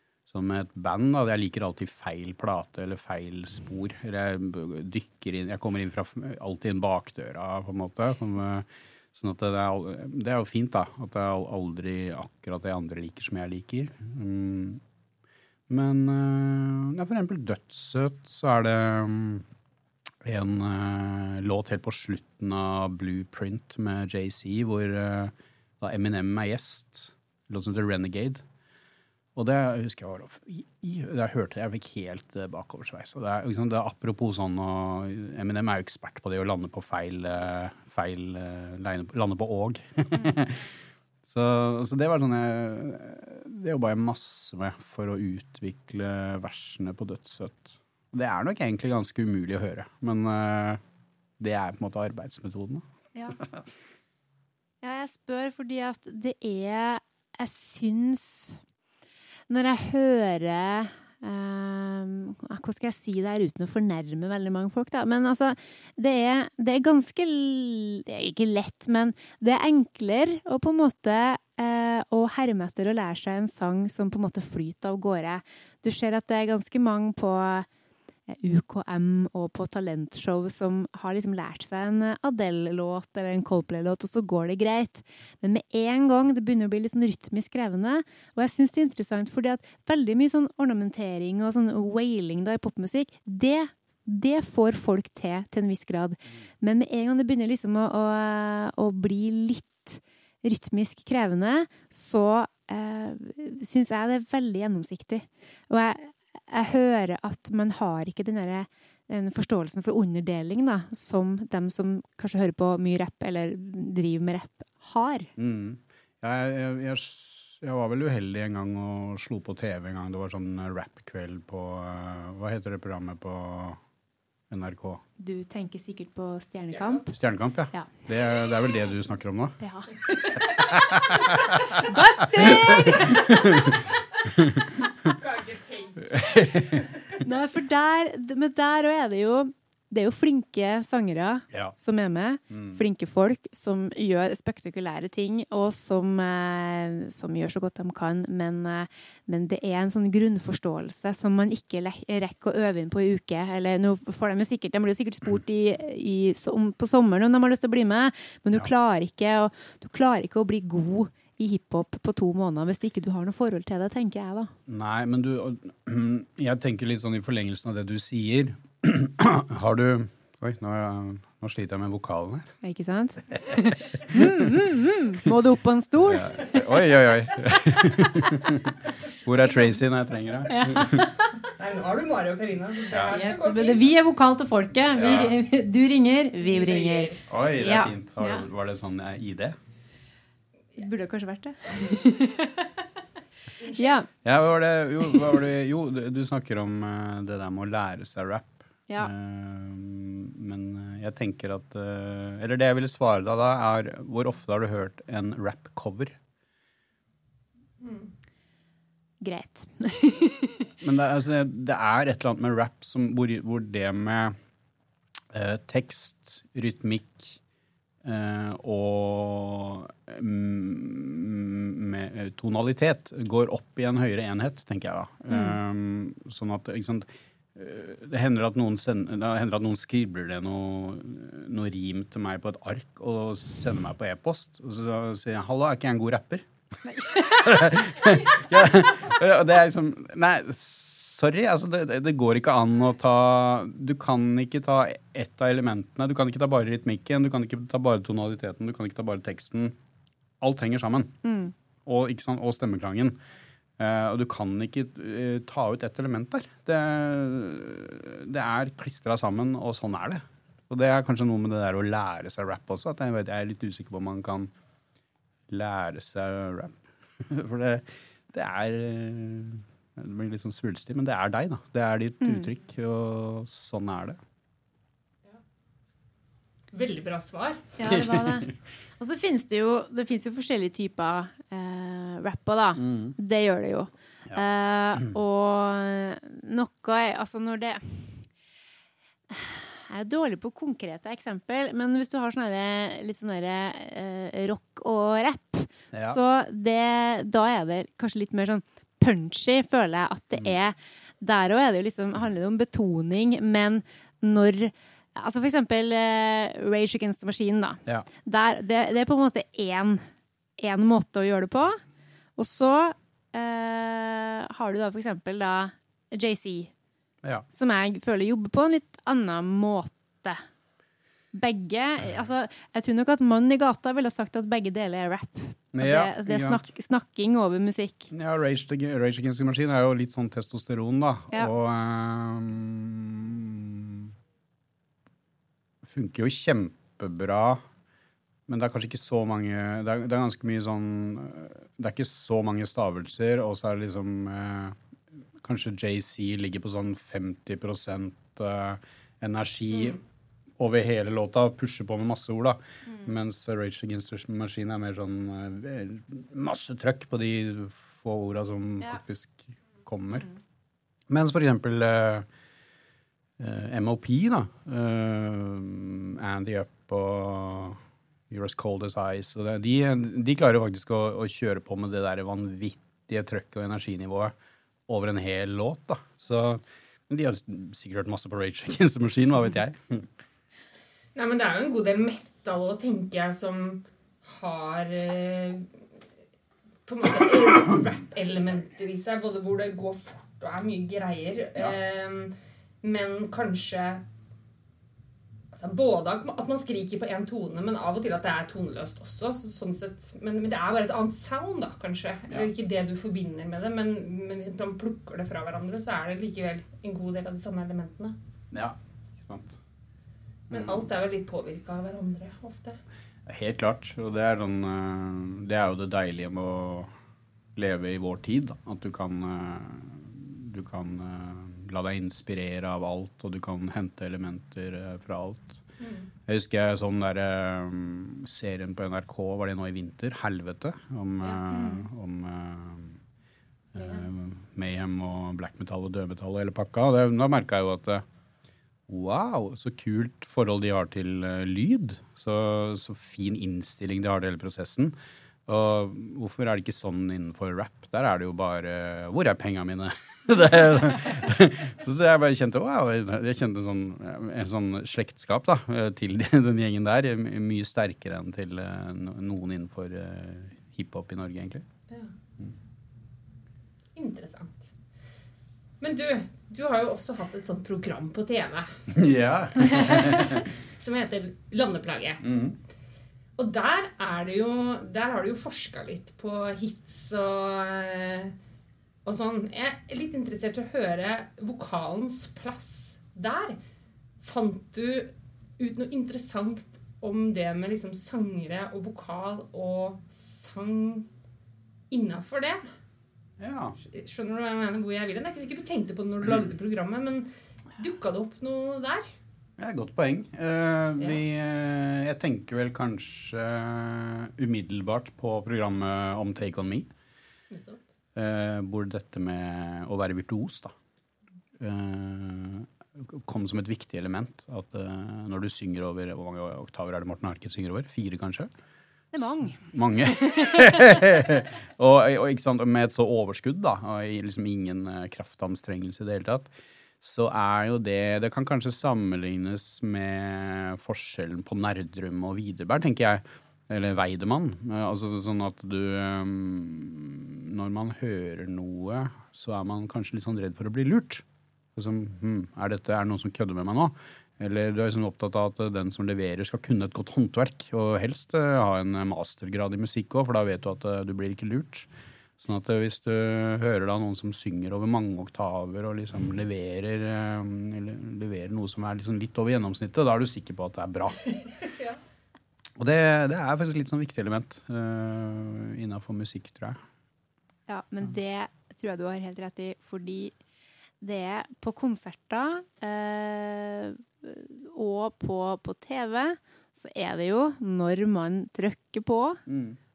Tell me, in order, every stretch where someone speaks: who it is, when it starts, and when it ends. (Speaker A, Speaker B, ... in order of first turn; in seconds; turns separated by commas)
Speaker A: 0.3-14.8, Speaker A: 15.7-19.4, Speaker A: 20.2-28.4, Speaker A: 29.3-40.7, Speaker A: 41.2-50.8, Speaker A: 51.4-52.8, Speaker B: 54.8-58.6, Speaker B: 59.5-77.7, Speaker B: 78.3-115.3, Speaker A: 115.4-123.8, Speaker A: 124.5-125.0, Speaker B: 125.2-127.0, Speaker C: 126.7-127.0, Speaker A: 127.1-129.6, Speaker B: 129.6-133.6, Speaker A: 130.7-131.6, Speaker A: 132.4-133.7, Speaker C: 135.0-136.2, Speaker A: 136.0-136.9, Speaker B: 137.1-164.5, Speaker A: 142.5-142.8, Speaker A: 164.7-172.5, Speaker B: 172.6-176.3, Speaker A: 174.1-174.5, Speaker A: 176.0-181.1, Speaker B: 180.5-181.3, Speaker C: 181.5-183.9, Speaker A: 182.9-183.2, Speaker B: 183.1-188.4, Speaker A: 184.9-185.4, Speaker C: 186.4-187.3, Speaker A: 187.3-189.6, Speaker B: 190.8-192.8, Speaker C: 193.6-194.0, Speaker B: 193.6-194.1, Speaker A: 194.2-206.2, Speaker C: 207.8-208.1, Speaker B: 209.2-210.7, Speaker A: 210.8-214.3, Speaker A: 215.3-217.4, Speaker A: 218.0-236.5, Speaker B: 236.9-237.6, Speaker A: 237.1-249.8, Speaker A: 250.4-251.2, Speaker B: 251.2-251.5, Speaker A: 251.8-253.2, Speaker A: 253.8-264.5, Speaker A: 265.5-274.2, Speaker B: 272.2-272.5, Speaker C: 276.7-277.7, Speaker B: 277.8-288.3, Speaker A: 277.8-278.5, Speaker A: 282.8-283.1, Speaker B: 289.3-310.0, Speaker A: 295.9-296.2, Speaker B: 310.6-311.8, Speaker B: 312.4-316.7, Speaker B: 317.5-320.4, Speaker B: 321.3-328.1, Speaker A: 325.7-326.6, Speaker A: 328.1-334.1, Speaker A: 335.8-337.6, Speaker A: 338.5-344.8, Speaker A: 345.4-350.0, Speaker A: 350.6-360.3, Speaker A: 361.1-362.3, Speaker A: 363.4-374.3, Speaker A: 374.9-380.1, Speaker C: 381.1-385.7, Speaker C: 386.9-394.0, Speaker C: 395.5-408.2, Speaker A: 408.5-409.6, Speaker C: 410.5-412.8, Speaker A: 410.5-410.8, Speaker A: 413.2-416.9, Speaker A: 417.5-425.6, Speaker C: 425.8-426.1, Speaker A: 426.3-433.0, Speaker B: 431.5-431.8, Speaker A: 433.7-438.0, Speaker C: 433.8-434.0, Speaker A: 438.9-444.9, Speaker A: 445.4-461.6, Speaker C: 463.9-464.7, Speaker C: 465.8-468.8, Speaker A: 468.9-470.5, Speaker C: 469.6-472.2, Speaker A: 472.2-472.6, Speaker C: 473.4-478.3, Speaker C: 479.0-483.6, Speaker C: 484.2-491.1, Speaker C: 491.9-492.6, Speaker A: 493.4-493.8, Speaker C: 493.8-499.1, Speaker A: 499.6-506.9, Speaker C: 507.5-507.8, Speaker A: 508.1-510.7, Speaker A: 511.6-518.5, Speaker B: 519.1-519.6, Speaker A: 519.6-561.3, Speaker B: 520.1-520.6, Speaker A: 562.8-566.8, Speaker B: 567.7-570.3, Speaker B: 571.0-579.4, Speaker A: 579.5-579.8